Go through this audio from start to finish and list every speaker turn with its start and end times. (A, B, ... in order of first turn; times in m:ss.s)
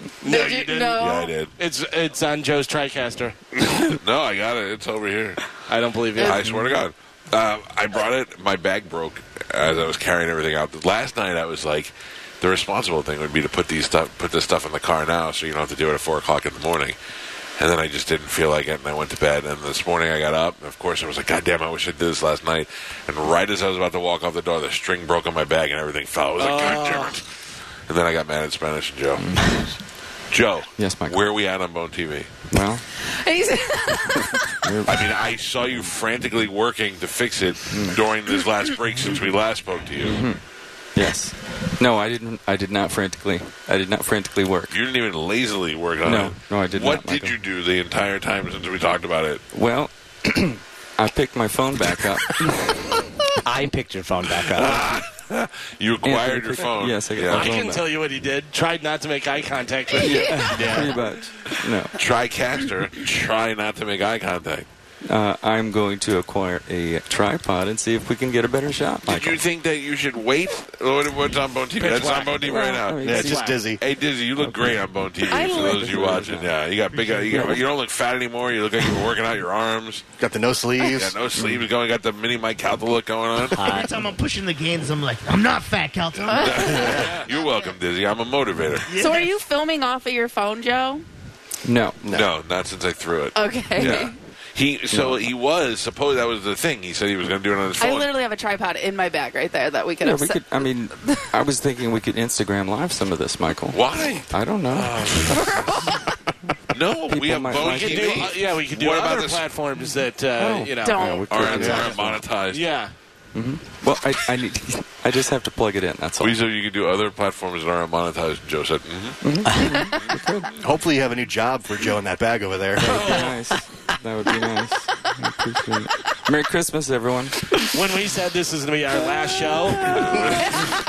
0:00.2-0:03.4 A
0:00.2-0:01.3 B
0:00.9-0:01.5 C
0:03.6-0:05.4 C
0:05.7-0:06.4 A
0:06.2-0:17.0 C
0:06.2-0:06.5 B
0:17.6-0:27.2 C
0:26.4-0:27.1 A
0:27.9-0:29.5 C
0:29.2-0:29.7 D
0:30.3-0:32.3 C
0:30.8-0:31.2 D
0:32.5-0:32.8 D
0:33.1-0:34.6 B
0:34.6-0:35.1 D
0:34.8-0:40.2 C
0:37.7-0:38.0 D
0:40.0-0:40.4 D
0:40.9-0:44.7 D
0:44.7-0:49.4 C
0:46.0-0:47.4 D
0:49.5-0:53.0 D
0:53.4-0:55.0 E
0:54.5-0:57.6 C
0:56.0-0:57.9 D
0:57.3-1:00.6 A
1:00.0-1:01.9 D
1:00.1-1:00.4 B
1:00.4-1:00.9 F
1:01.5-1:04.6 C
1:05.1-1:09.4 D
1:09.0-1:20.0 C
1:11.8-1:12.4 A
1:12.4-1:13.7 D
1:13.0-1:13.8 F
1:14.4-1:16.5 D
1:15.3-1:16.1 B
1:17.1-1:17.6 D
1:20.2-1:21.2 F
1:20.9-1:23.8 C
1:21.4-1:21.6 D
1:23.5-1:23.9 E
1:23.6-1:27.0 G
1:26.1-1:27.1 B
1:26.1-1:29.1 C
1:26.9-1:27.3 A
1:28.9-1:31.0 B
1:28.9-1:29.2 G
1:31.6-1:32.0 D
1:32.0-1:32.3 F
1:32.1-1:38.1 C
1:33.3-1:34.1 B
1:34.9-1:35.3 D
1:37.8-1:41.3 B
1:40.0-1:45.5 D
1:43.7-1:45.4 C
1:45.3-1:46.1 B
1:46.7-1:49.4 C
1:47.1-1:48.3 D
1:47.5-1:51.7 A
1:50.4-1:52.2 D
1:50.8-1:51.8 B
1:51.3-1:52.6 C
1:51.5-1:51.9 F
1:52.5-1:52.9 A
1:53.4-1:56.4 D
1:56.2-1:59.2 C
1:59.2-2:00.5 D
1:59.8-2:00.2 C
2:00.6-2:03.0 F
2:02.8-2:07.7 D
2:02.8-2:03.4 A
2:07.7-2:10.6 A
2:10.1-2:10.5 C